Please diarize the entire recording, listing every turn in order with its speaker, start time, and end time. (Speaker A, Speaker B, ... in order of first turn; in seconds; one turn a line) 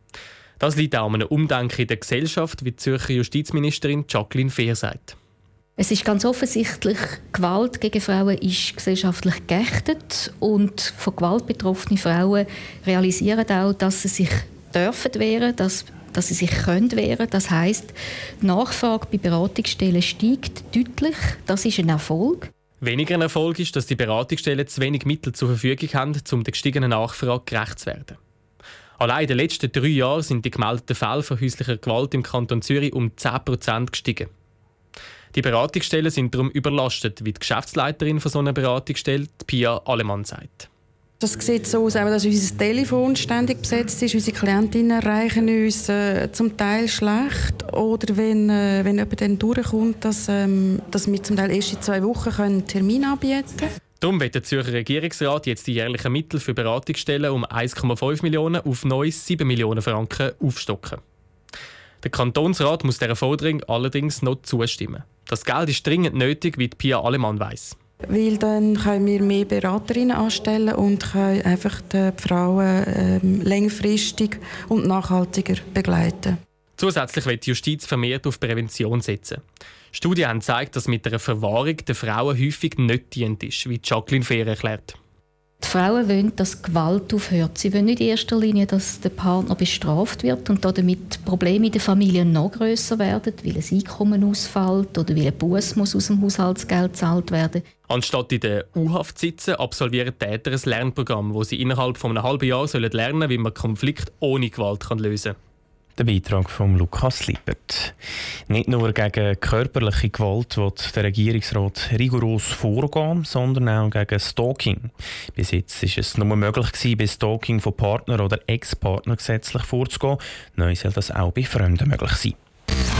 Speaker A: 0.6-5.2
Speaker B: 5.8-22.5
Speaker A: 22.8-28.2
Speaker A: 29.0-34.3
Speaker A: 35.3-40.7
Speaker C: 41.2-53.7
Speaker A: 54.0-61.0
Speaker A: 62.0-67.8
Speaker C: 68.1-76.4
Speaker A: 76.8-79.4
Speaker A: 79.9-85.0
Speaker B: 85.6-97.6
Speaker A: 97.9-105.3
Speaker D: 106.0-107.9
Speaker D: 108.5-122.3